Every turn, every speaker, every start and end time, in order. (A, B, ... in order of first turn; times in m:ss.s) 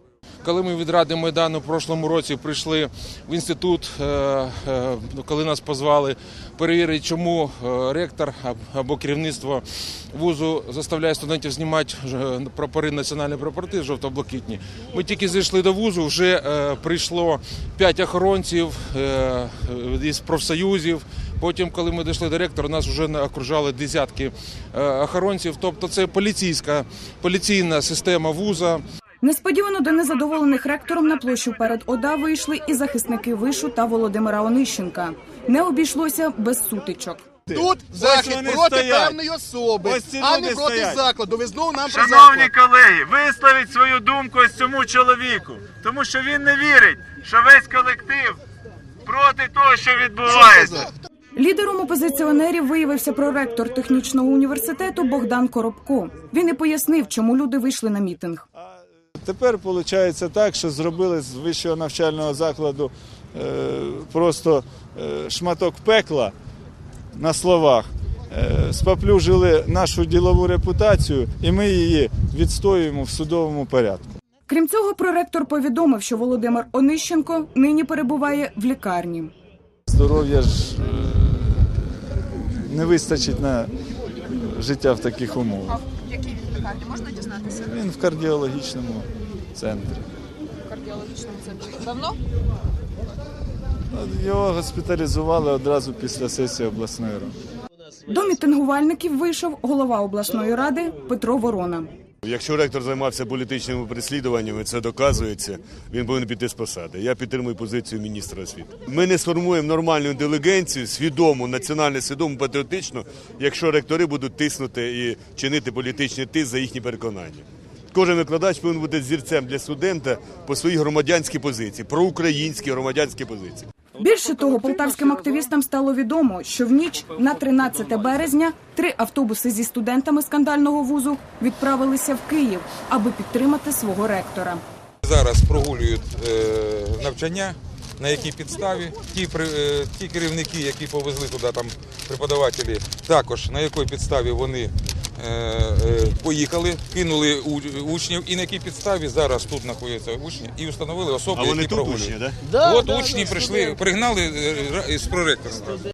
0:00.4-0:28.8 A
0:29.2-0:37.2 B
0:37.5-0:39.2 C
0:37.5-0:42.5 D
0:39.8-0:41.0 C
0:41.9-0:48.4 E
0:49.1-0:50.9 E
0:50.3-0:51.0 D
0:51.4-0:58.4 B
0:58.6-1:06.3 C
1:07.2-1:14.1 C
1:14.5-1:19.3 B
1:19.9-1:23.7 C
1:24.2-1:25.9 C
1:25.9-1:27.5 F
1:27.3-1:30.1 C
1:30.7-1:32.2 F
1:33.9-1:37.4 C
1:38.1-1:41.9 B
1:42.2-2:03.7 G
2:04.0-2:14.6 B
2:15.0-2:35.8 H
2:31.3-2:32.4 G